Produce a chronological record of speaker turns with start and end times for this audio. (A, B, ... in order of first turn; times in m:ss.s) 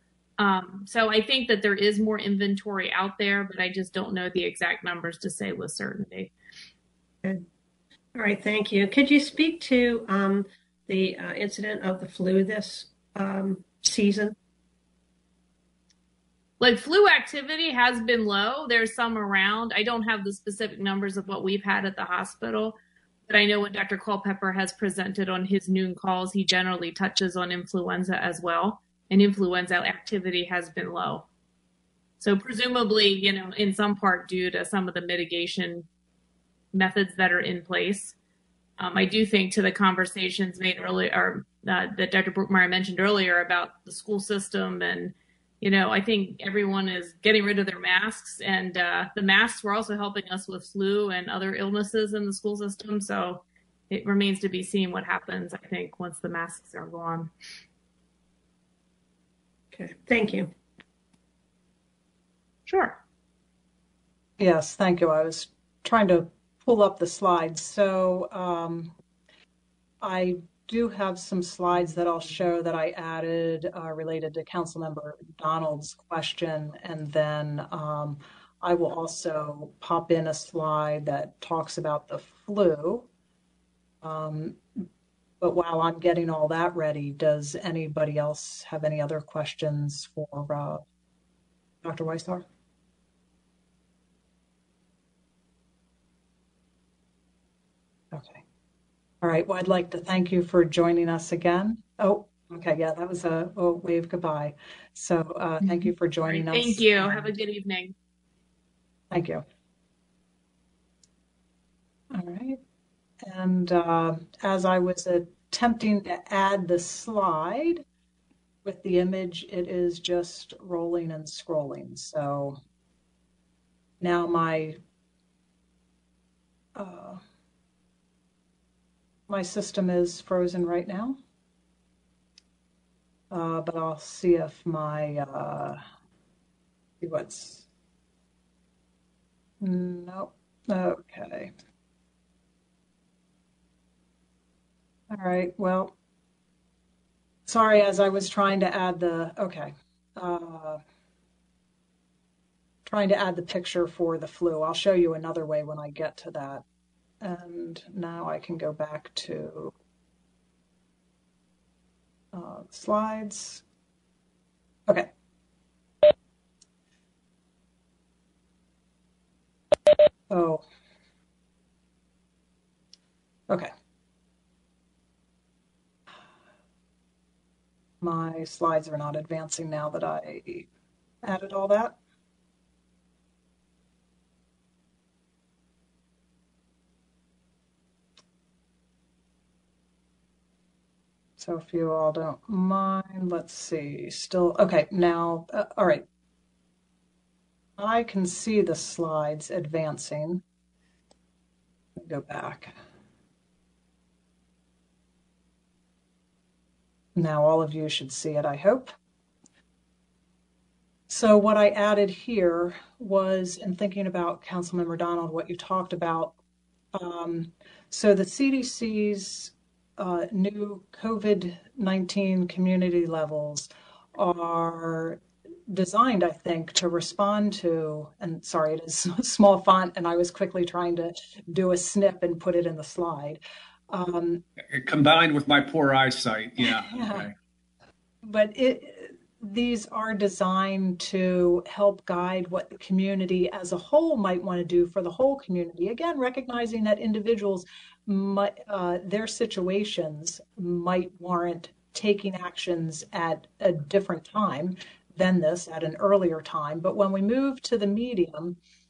0:00.4-0:06.3 A
0:08.1-0:14.3 B
0:16.6-0:31.3 A
0:32.2-0:35.9 A
0:36.7-0:38.1 A
0:38.8-0:57.3 A
0:59.7-1:00.5 B
1:02.7-1:03.0 A
1:04.4-1:08.9 C
1:10.0-1:23.1 C
1:24.0-1:24.8 C
1:25.4-1:30.8 C
1:31.8-1:32.4 C
1:38.1-1:38.4 C
1:39.2-1:47.3 C
1:46.3-1:47.9 A
1:49.1-1:49.4 C
1:52.1-1:52.6 C
1:53.2-1:57.8 C
1:58.6-2:02.6 C
2:04.0-2:04.8 C
2:06.8-2:07.2 C
2:09.3-2:11.2 C
2:13.3-2:15.8 C
2:17.0-2:17.6 C
2:19.6-2:21.5 C
2:25.1-2:25.9 C
2:27.5-2:30.8 C
2:32.8-2:36.6 C
2:37.2-2:39.7 C
2:42.3-2:43.6 C
2:50.3-2:50.6 C
2:58.0-3:00.7 C
3:01.2-3:02.0 C
3:11.4-3:16.0 C
3:17.8-3:20.4 C
3:22.0-3:22.7 C
3:27.1-3:28.9 C
3:31.1-3:36.3 C
3:36.9-3:54.4 C
3:54.7-3:57.3 D
3:56.6-3:57.3 C
3:58.2-4:18.6 C